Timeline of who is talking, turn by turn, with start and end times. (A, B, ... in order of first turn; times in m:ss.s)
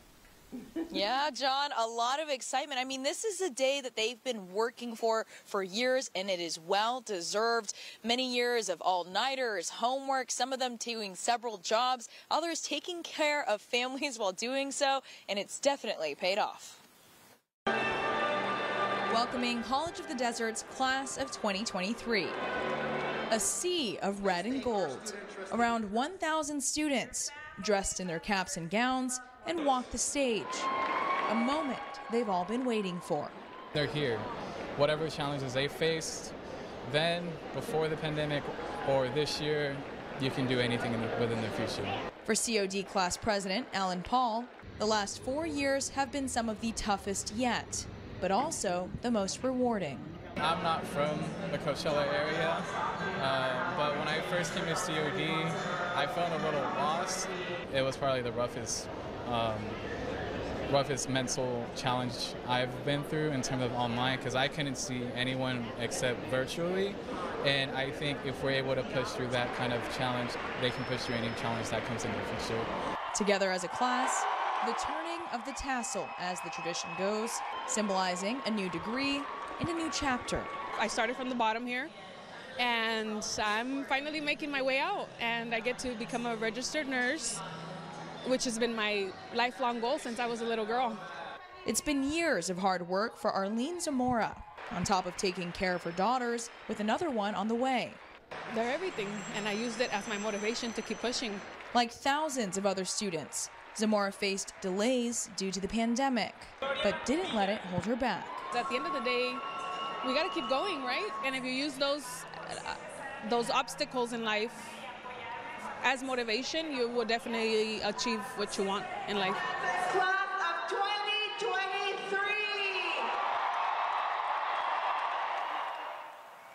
0:00.9-0:16.8 A
0:19.1-0:22.4 A
0:23.3-0:30.7 A
0:31.3-0:33.4 A
0:33.7-0:36.3 B
0:36.8-0:42.0 B
0:42.2-0:50.1 A
0:50.4-0:59.8 B
1:00.7-1:12.7 B
1:13.1-1:20.5 A
1:20.7-1:21.9 C
1:22.6-1:27.4 C
1:28.2-1:31.0 C
1:31.6-1:38.0 A
1:38.5-1:41.4 C
1:41.7-1:48.4 A
1:48.5-1:49.4 C
1:50.0-1:54.7 C
1:55.8-2:02.9 C